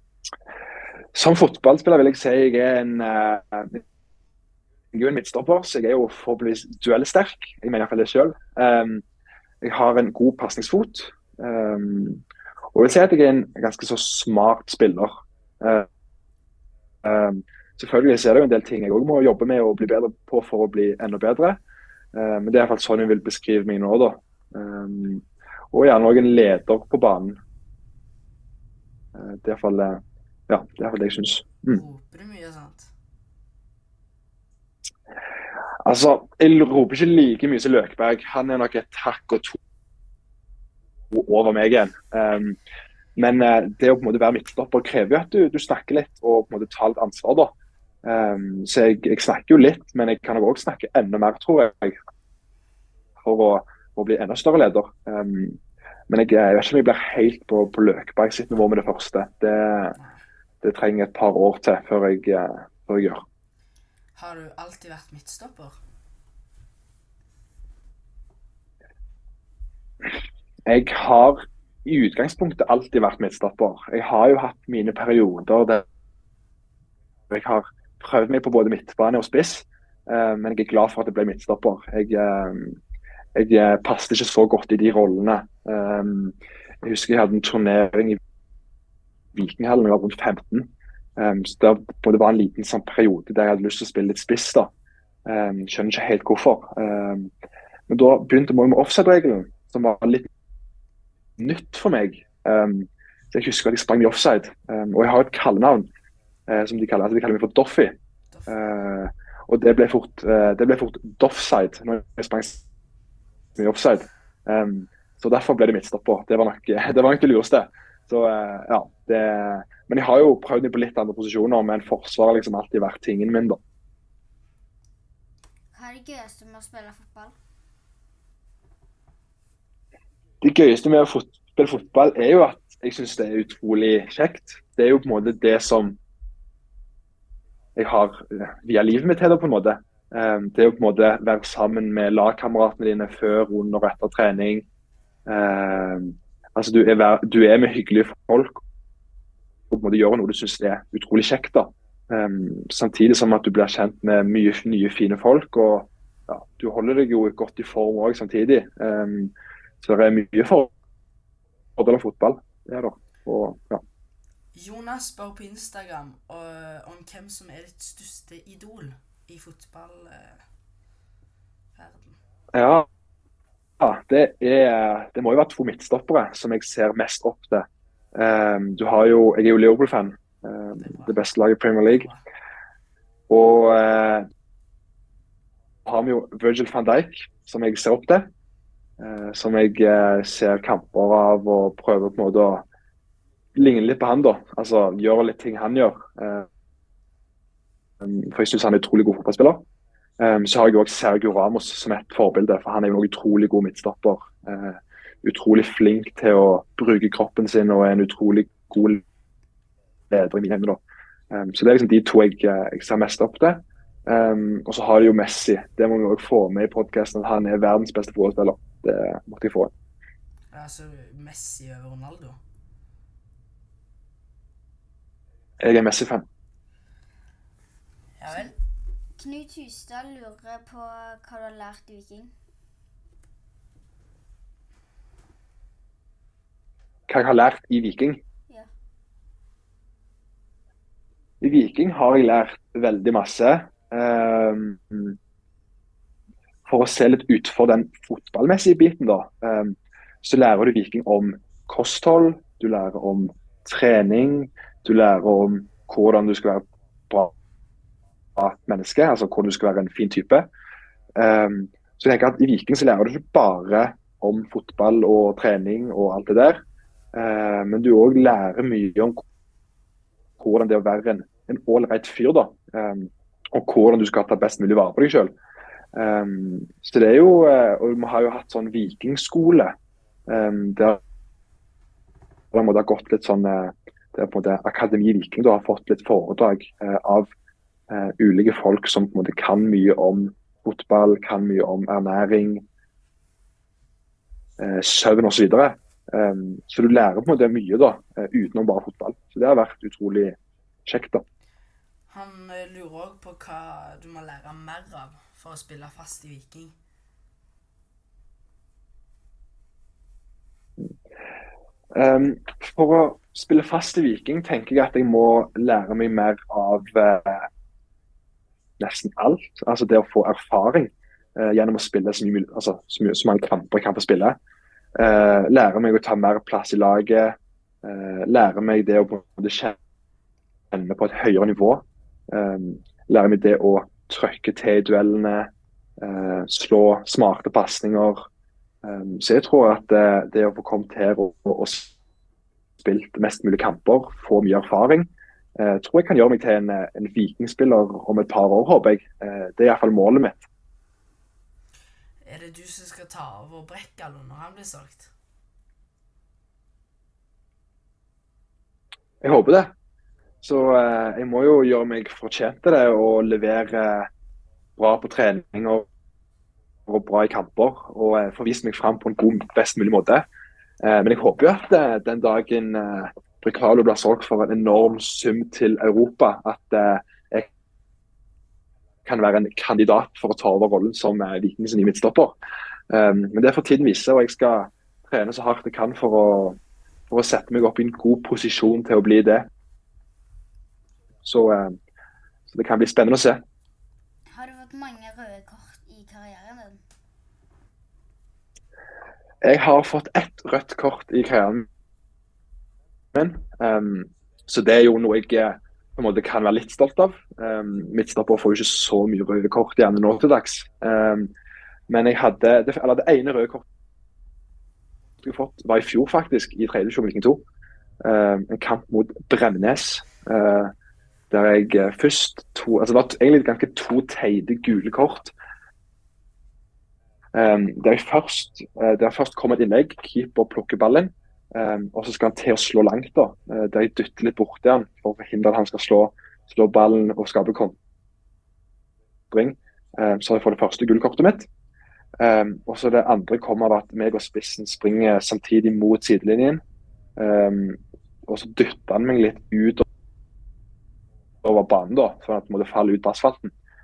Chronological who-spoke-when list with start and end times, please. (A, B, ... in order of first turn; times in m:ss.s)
0:01.2-0:03.8 A
0:04.9-0:09.0 A
0:09.6-0:12.2 A
0:12.7-0:15.9 A
0:17.0-0:21.6 A
0:22.1-0:27.4 A
0:29.2-0:31.8 A
0:31.7-0:32.9 B
0:35.8-0:39.6 A
0:41.1-0:42.6 A
0:43.2-0:52.0 A
0:53.2-0:55.6 A
0:56.1-1:00.0 A
1:00.6-1:03.2 A
1:04.2-1:05.8 B
1:10.7-1:15.8 A
1:17.3-1:22.8 A
1:23.4-1:28.2 A
1:29.3-1:34.7 A
1:35.3-1:37.3 A
1:37.9-1:40.3 A
1:41.4-1:45.9 A
1:46.5-1:52.6 A
1:53.6-2:03.6 A
2:05.7-2:07.4 C
2:10.4-2:16.0 A
2:17.8-2:24.6 A
2:25.3-2:28.6 A
2:29.7-2:40.7 A
2:41.8-2:43.8 A
2:44.5-2:50.4 B
2:51.8-2:52.2 B
2:52.5-2:52.9 A
2:53.8-3:02.1 A
3:00.8-3:01.2 B
3:01.9-3:02.2 B
3:03.3-3:04.3 A
3:05.8-3:08.3 A
3:09.0-3:12.6 A
3:13.6-3:16.5 A
3:18.0-3:19.6 A
3:20.2-3:29.0 A
3:30.1-3:30.8 A
3:31.3-3:39.7 A
3:40.5-3:42.4 B
3:45.6-3:46.3 A
3:48.2-3:48.5 B
3:49.2-3:52.3 C
3:57.1-3:58.2 A
4:01.4-4:05.2 A
4:06.7-4:17.3 A
4:18.4-4:20.5 A
4:21.2-4:26.6 A
4:27.1-4:29.2 A
4:30.4-4:35.4 A
4:35.9-4:39.8 A
4:40.3-4:41.0 A
4:42.5-4:47.3 A
4:47.9-4:52.6 A
4:54.6-5:01.2 A
5:02.1-5:06.7 B
5:12.0-5:17.5 A
5:18.8-5:24.4 A
5:25.0-5:29.8 A
5:30.7-5:38.3 A
5:38.8-5:41.9 A
5:42.8-5:50.5 A
5:52.2-5:55.1 B
5:59.2-5:59.7 A
6:00.4-6:04.1 A
6:04.8-6:05.9 A
6:06.9-6:10.3 A
6:10.8-6:17.5 A
6:19.1-6:22.4 A
6:22.9-6:26.6 A
6:27.1-6:29.5 A
6:31.2-6:31.8 A
6:32.5-6:33.4 A
6:34.3-6:36.8 C
6:39.4-6:41.7 A
6:43.1-6:51.3 A
6:51.9-6:53.6 A
6:55.2-6:57.4 A
6:58.0-7:00.7 A
7:01.3-7:05.3 A
7:07.3-7:17.8 A
7:19.3-7:21.5 A
7:22.2-7:26.6 A
7:27.2-7:29.8 A
7:31.4-7:33.5 A